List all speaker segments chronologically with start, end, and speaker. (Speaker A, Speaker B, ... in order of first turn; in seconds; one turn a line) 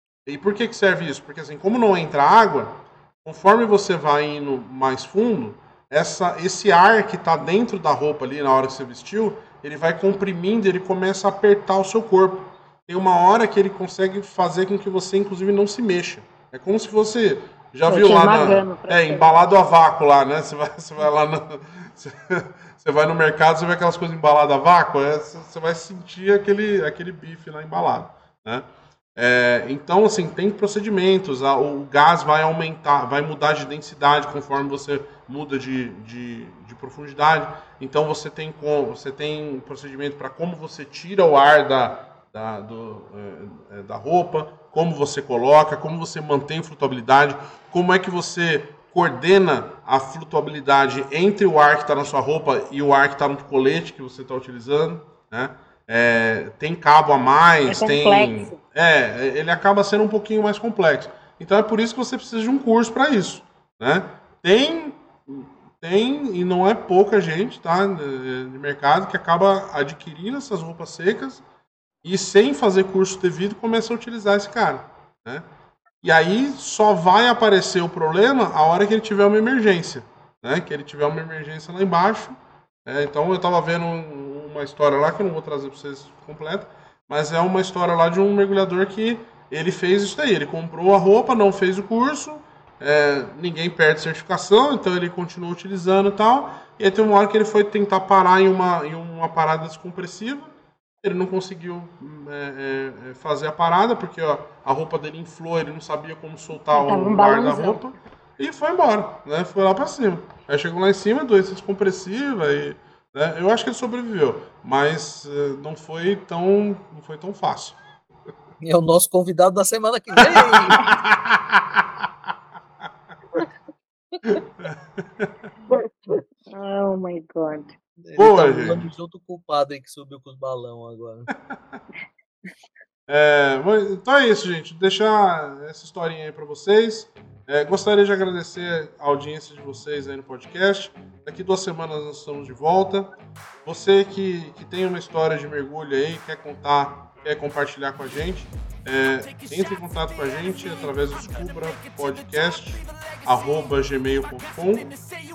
Speaker A: 0.2-71.4
Speaker B: 17.9-19.3
Speaker B: 57.7-58.6
Speaker A: 72.0-75.4
Speaker A: 76.0-117.8
Speaker B: 106.7-107.8
Speaker C: 118.6-120.9
Speaker A: 120.2-122.0
Speaker A: 124.2-125.5
Speaker B: 125.7-127.7
Speaker C: 128.0-131.3
Speaker A: 128.2-128.9
Speaker A: 131.5-131.8
Speaker A: 133.1-143.1
Speaker A: 143.6-154.9